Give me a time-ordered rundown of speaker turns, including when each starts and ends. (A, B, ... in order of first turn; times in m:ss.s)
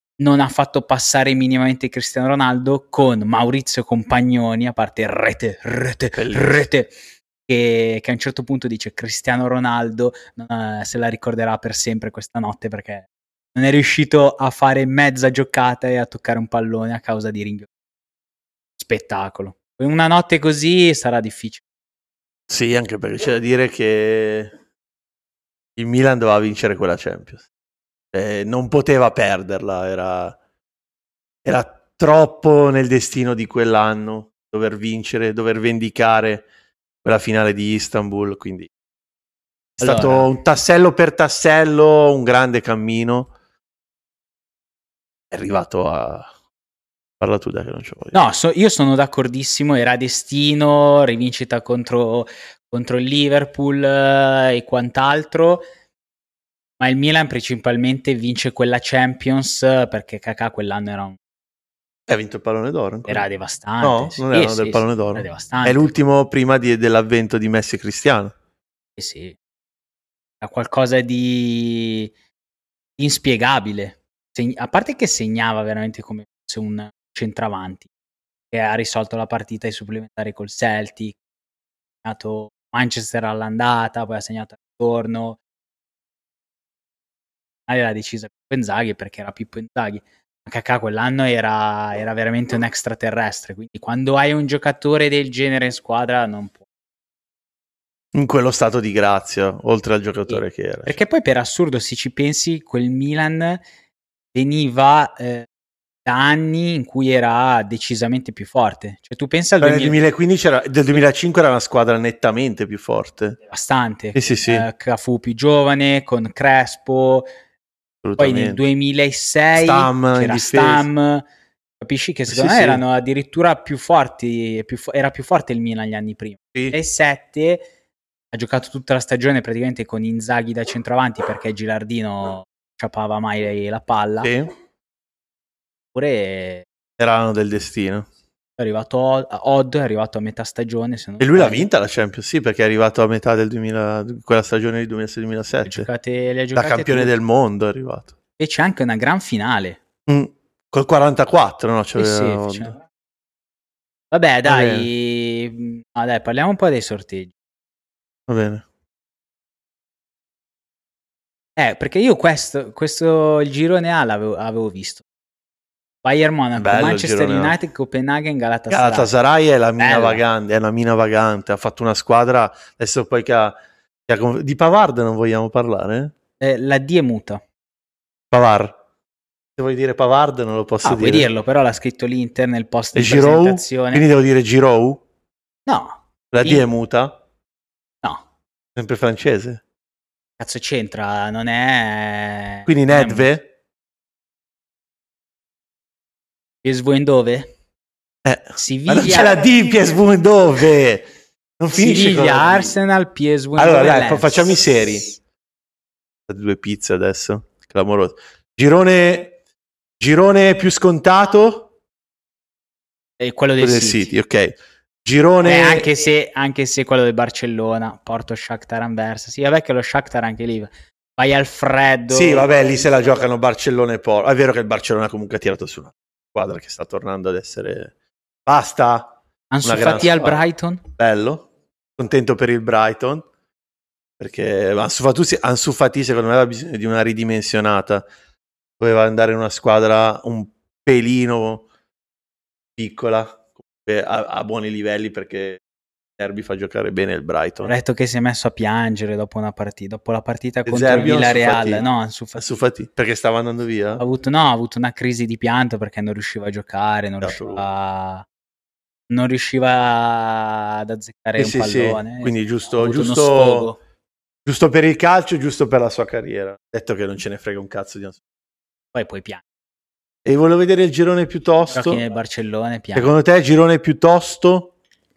0:00.2-0:17.7 A
0:06.1-0:06.7 B
0:18.8-0:21.6 A
0:22.5-0:24.5 B
0:25.8-0:27.4 B
0:28.1-0:30.4 B
0:31.4-0:36.5 B
0:37.0-0:38.7 B
0:39.8-0:43.3 B
0:39.8-0:40.3 A
0:45.3-0:46.3 B
0:47.2-0:48.2 B
0:48.1-0:55.6 A
0:56.8-1:01.2 A
1:02.1-1:03.2 B
1:03.1-1:05.9 A
1:03.8-1:08.3 B
1:09.0-1:09.4 A
1:10.4-1:12.1 A
1:13.0-1:17.9 A
1:18.5-1:21.2 A
1:22.0-1:25.4 A
1:27.7-1:36.6 A
1:38.1-1:41.0 B
1:40.3-1:43.6 A
1:44.3-1:45.5 A
1:46.0-1:50.0 A
1:49.6-1:53.4 B
1:53.5-1:57.3 A
1:54.1-1:54.7 B
1:58.0-1:58.6 B
1:58.2-2:01.2 A
1:59.5-2:00.9 B
2:01.8-2:07.6 A
2:02.3-2:02.8 B
2:08.3-2:14.3 A
2:14.2-2:14.5 B
2:15.9-2:16.6 A
2:17.0-2:18.1 B
2:18.6-2:21.7 A
2:21.2-2:25.9 B
2:25.6-2:27.1 A
2:26.5-2:28.1 B
2:28.4-2:29.8 A
2:30.1-2:32.7 B
2:32.0-2:32.8 A
2:34.1-2:37.3 A
2:34.4-2:34.9 B
2:38.3-2:38.6 B
2:41.6-2:45.0 A
2:46.0-2:49.1 A
2:46.6-2:47.6 B
2:48.7-2:53.6 B
2:49.8-2:50.2 A
2:54.1-2:56.1 B
2:56.4-2:57.4 A
2:58.3-2:58.8 B
2:59.6-3:01.3 B
3:00.8-3:04.0 A
3:02.9-3:05.0 B
3:05.6-3:06.6 A
3:06.3-3:07.2 B
3:08.7-3:09.6 B
3:10.4-3:13.3 A
3:12.6-3:13.5 B
3:16.6-3:17.5 A
3:18.2-3:22.7 B
3:18.6-3:19.4 A
3:21.7-3:24.8 A
3:23.6-3:25.1 B
3:26.3-3:29.4 B
3:30.0-3:31.7 B
3:33.2-3:34.1 A
3:33.6-3:35.9 B
3:35.4-3:42.5 A
3:42.1-3:47.9 B
3:48.4-3:53.3 B
3:49.5-3:50.8 A
3:54.2-3:58.0 B
3:58.8-4:01.6 B
4:02.8-4:05.6 B
4:06.2-4:07.7 B
4:07.6-4:12.5 A
4:10.6-4:11.8 B
4:12.4-4:14.0 B
4:14.0-4:18.2 A
4:17.2-4:17.6 B
4:19.1-4:23.8 A
4:21.4-4:23.7 B
4:24.4-4:28.2 B
4:28.9-4:29.4 A
4:30.2-4:32.0 B
4:31.7-4:33.1 A
4:32.9-4:34.7 B